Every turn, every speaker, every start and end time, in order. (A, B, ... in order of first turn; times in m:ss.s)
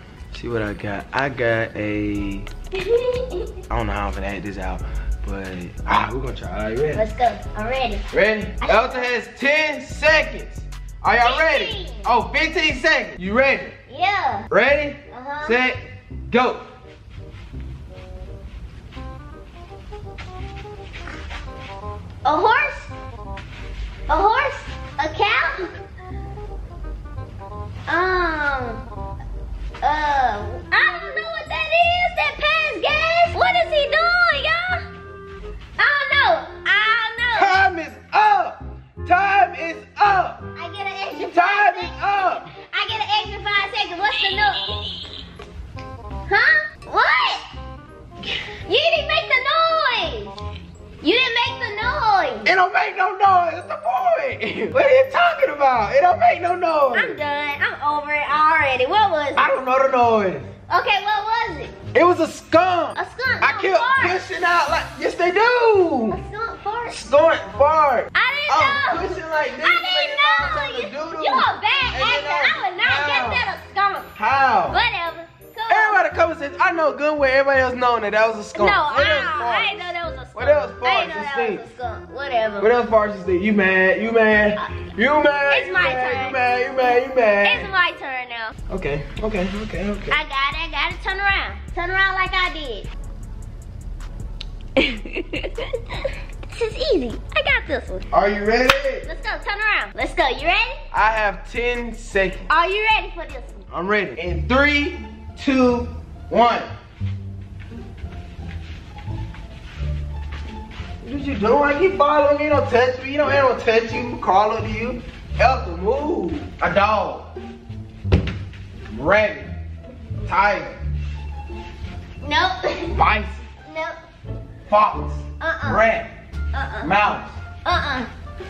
0:00.3-0:02.5 A
0:02.7-0:03.5 B
0:03.7-0:07.0 A
0:06.9-0:08.0 B
0:08.1-0:13.8 A
0:08.6-0:09.0 B
0:11.2-0:12.1 B
0:13.9-0:14.5 B
0:14.5-0:16.6 A
0:15.1-0:15.6 B
0:22.2-0:22.9 B
0:24.1-0:25.7 B
0:27.9-0:28.8 B
0:29.8-0:34.8 B
0:35.8-0:37.6 B
0:37.3-0:40.4 A
0:40.6-0:41.9 B
0:41.2-0:42.5 A
0:42.5-0:44.7 B
0:46.3-0:47.4 B
0:48.7-0:50.3 B
0:51.0-0:52.5 B
0:52.4-0:57.2 A
0:56.9-0:59.5 B
0:59.4-1:00.5 A
1:00.7-1:01.7 B
1:01.9-1:06.2 A
1:03.0-1:04.2 B
1:06.1-1:07.0 B
1:06.9-1:13.4 A
1:08.1-1:14.1 B
1:14.2-1:14.8 A
1:14.7-1:16.0 B
1:15.7-1:19.8 A
1:18.6-1:22.7 B
1:20.3-1:21.6 A
1:22.6-1:27.7 A
1:25.5-1:26.4 B
1:27.4-1:28.5 B
1:28.7-1:30.2 A
1:30.1-1:32.9 B
1:34.8-1:38.1 B
1:38.1-1:39.1 A
1:39.0-1:40.8 B
1:40.9-1:42.4 A
1:42.5-1:43.6 B
1:43.7-1:46.7 A
1:51.0-1:57.3 A
1:58.9-1:59.5 A
2:00.2-2:00.8 A
2:02.2-2:03.0 B
2:02.9-2:03.5 A
2:03.6-2:04.0 B
2:04.7-2:06.1 A
2:05.4-2:05.8 B
2:06.5-2:06.9 B
2:06.8-2:07.3 A
2:07.6-2:08.1 B